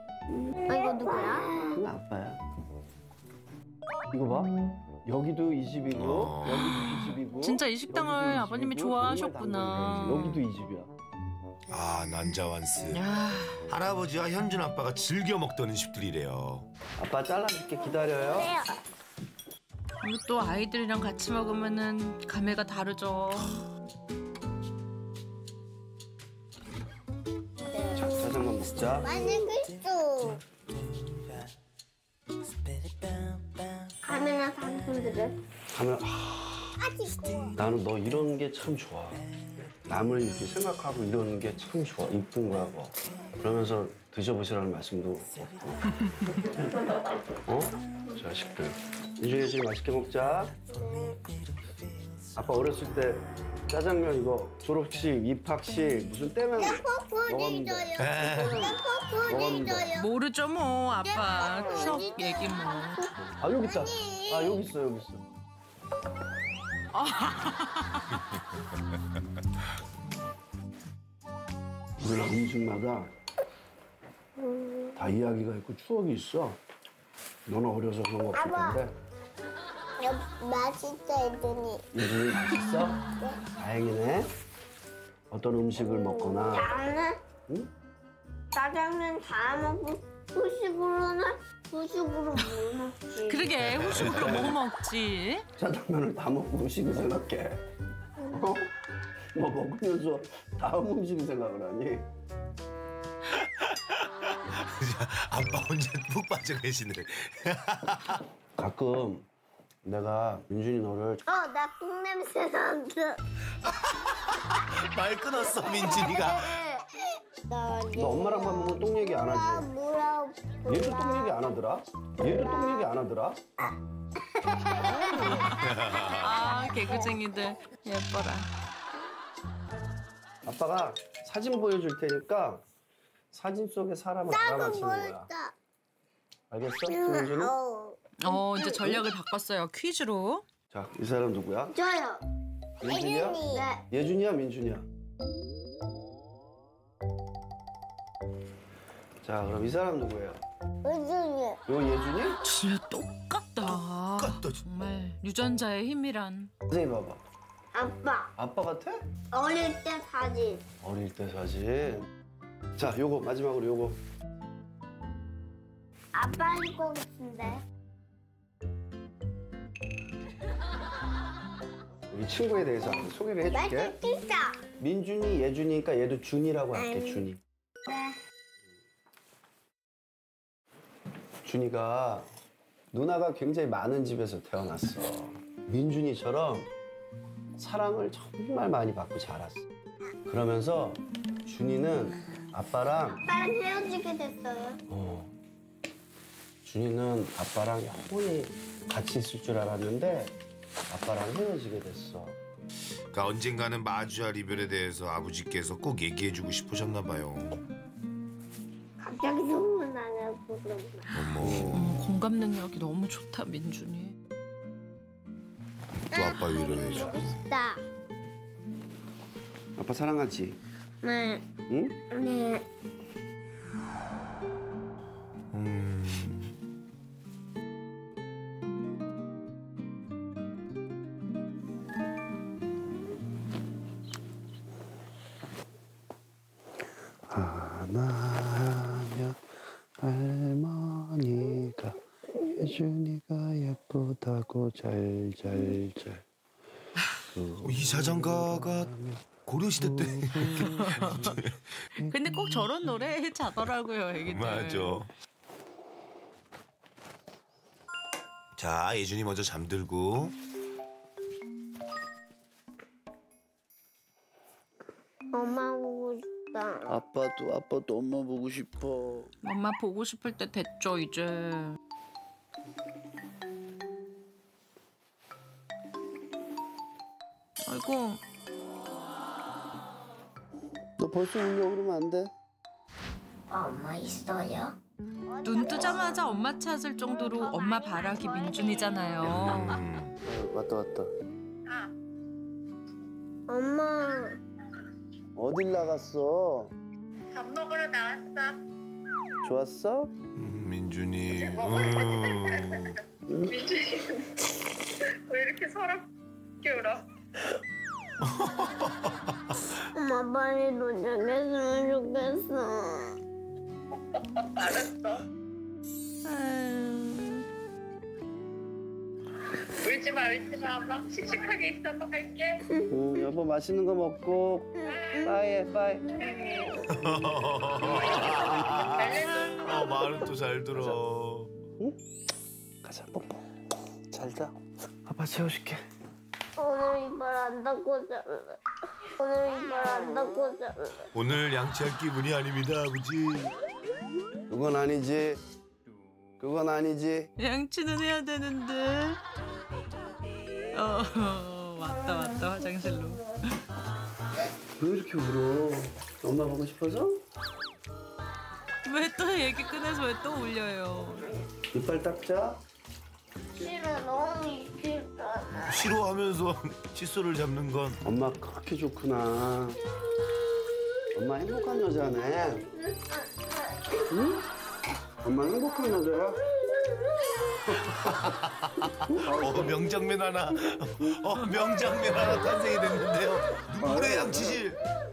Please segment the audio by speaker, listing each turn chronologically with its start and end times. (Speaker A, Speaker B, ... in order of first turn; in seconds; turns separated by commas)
Speaker A: 0.4-1.8, Speaker B: 1.7-2.4, Speaker B: 4.1-4.5, Speaker B: 5.1-10.9, Speaker C: 5.9-6.9, Speaker D: 6.6-10.4, Speaker C: 11.7-13.1, Speaker D: 12.9-13.6, Speaker C: 13.7-16.7, Speaker B: 17.0-18.6, Speaker A: 18.3-18.8, Speaker D: 20.0-23.5, Speaker A: 27.7-30.4, Speaker B: 27.9-29.1, Speaker A: 34.0-35.4, Speaker B: 35.7-36.8, Speaker A: 36.8-37.6, Speaker B: 37.6-39.2, Speaker B: 39.8-45.8, Speaker B: 47.5-50.5, Speaker A: 50.7-51.2, Speaker B: 52.4-59.9, Speaker A: 56.6-60.1, Speaker C: 58.0-58.8, Speaker D: 60.0-63.1, Speaker A: 61.1-63.1, Speaker B: 63.4-65.2, Speaker A: 63.6-64.6, Speaker D: 66.9-68.2, Speaker B: 72.0-73.1, Speaker A: 74.4-75.0, Speaker B: 75.0-76.6, Speaker B: 77.5-78.9, Speaker A: 78.3-78.8, Speaker A: 80.0-81.9, Speaker B: 81.9-83.0, Speaker B: 83.6-84.3, Speaker B: 85.3-86.7, Speaker A: 85.9-87.2, Speaker A: 88.5-93.5, Speaker D: 93.2-95.5, Speaker C: 93.6-94.6, Speaker B: 94.0-94.4, Speaker B: 95.6-97.6, Speaker B: 98.3-98.7, Speaker B: 99.3-102.1, Speaker C: 103.3-108.2, Speaker B: 108.6-109.3, Speaker B: 109.8-111.2, Speaker A: 111.3-113.2, Speaker C: 113.6-116.6, Speaker A: 116.0-121.4, Speaker B: 117.9-119.7, Speaker B: 120.7-123.4, Speaker A: 122.2-122.9, Speaker A: 124.3-125.5, Speaker D: 124.9-128.5, Speaker C: 125.6-126.5, Speaker A: 126.6-127.1, Speaker B: 130.4-132.6, Speaker B: 133.3-135.3, Speaker A: 134.3-135.5, Speaker B: 136.5-137.6, Speaker A: 136.8-139.0, Speaker D: 138.2-140.4, Speaker B: 140.7-141.8, Speaker A: 141.7-142.2, Speaker B: 142.8-144.9, Speaker A: 142.9-143.8, Speaker B: 149.2-150.4, Speaker A: 150.8-151.6, Speaker B: 151.7-152.4, Speaker D: 152.4-156.5, Speaker C: 153.7-154.6, Speaker B: 156.7-157.2, Speaker A: 157.7-158.3, Speaker B: 158.4-159.0, Speaker A: 159.3-160.6, Speaker B: 160.8-162.1, Speaker B: 162.8-164.0, Speaker A: 166.2-167.6, Speaker B: 172.1-174.0, Speaker A: 173.5-174.6, Speaker B: 174.8-177.4, Speaker A: 176.8-177.3, Speaker B: 181.4-182.3, Speaker B: 182.9-186.7, Speaker B: 187.6-189.7, Speaker B: 190.3-193.2, Speaker A: 193.1-194.8, Speaker B: 194.9-195.3, Speaker B: 196.6-200.4, Speaker B: 200.9-202.4, Speaker C: 203.1-207.6, Speaker A: 209.0-211.1, Speaker C: 211.1-211.8, Speaker B: 211.4-212.1, Speaker D: 211.7-214.1, Speaker C: 216.1-217.2, Speaker A: 216.1-217.8, Speaker B: 219.8-220.6, Speaker A: 221.0-221.4, Speaker B: 221.7-222.0, Speaker A: 222.1-222.6, Speaker C: 225.5-226.5, Speaker B: 237.3-239.4, Speaker B: 240.0-246.2, Speaker B: 247.3-251.4, Speaker C: 247.6-251.9, Speaker D: 250.6-251.3, Speaker B: 252.0-252.6, Speaker D: 252.1-255.0, Speaker C: 254.2-255.1, Speaker C: 258.6-260.4, Speaker A: 265.3-267.0, Speaker B: 266.9-269.3, Speaker D: 269.4-271.8, Speaker D: 277.6-278.2, Speaker B: 281.0-282.3, Speaker A: 283.5-284.8, Speaker A: 285.3-286.2, Speaker D: 285.4-289.8, Speaker A: 287.4-289.6, Speaker C: 289.2-290.1, Speaker B: 290.2-291.1, Speaker A: 293.5-294.4, Speaker B: 295.4-296.7, Speaker E: 297.4-298.6, Speaker B: 299.4-300.1, Speaker C: 300.4-302.9, Speaker E: 301.3-302.9, Speaker B: 303.3-303.6, Speaker E: 303.5-304.4, Speaker E: 305.0-306.1, Speaker E: 306.6-307.0, Speaker C: 308.2-309.8, Speaker A: 309.9-313.2, Speaker E: 314.1-315.2, Speaker D: 316.2-317.4, Speaker E: 319.8-322.6, Speaker B: 322.9-326.4, Speaker E: 324.9-325.2, Speaker A: 324.9-325.4, Speaker A: 326.2-326.7, Speaker C: 326.8-331.5, Speaker E: 328.8-329.9, Speaker B: 332.8-333.4, Speaker B: 334.1-334.5, Speaker B: 335.1-335.8, Speaker A: 336.6-338.6, Speaker A: 339.2-341.1, Speaker C: 341.1-343.6, Speaker B: 344.5-345.4, Speaker B: 346.4-347.3, Speaker D: 347.4-349.2, Speaker D: 350.7-353.3, Speaker B: 354.8-357.2, Speaker D: 358.9-361.3, Speaker B: 361.7-362.6, Speaker A: 363.6-365.9, Speaker C: 365.6-368.0, Speaker B: 368.0-369.8, Speaker B: 371.1-372.7, Speaker A: 372.7-374.0, Speaker B: 374.1-374.4, Speaker B: 375.2-376.4, Speaker B: 377.7-378.3, Speaker C: 377.9-384.8, Speaker B: 379.1-379.8, Speaker B: 383.8-384.6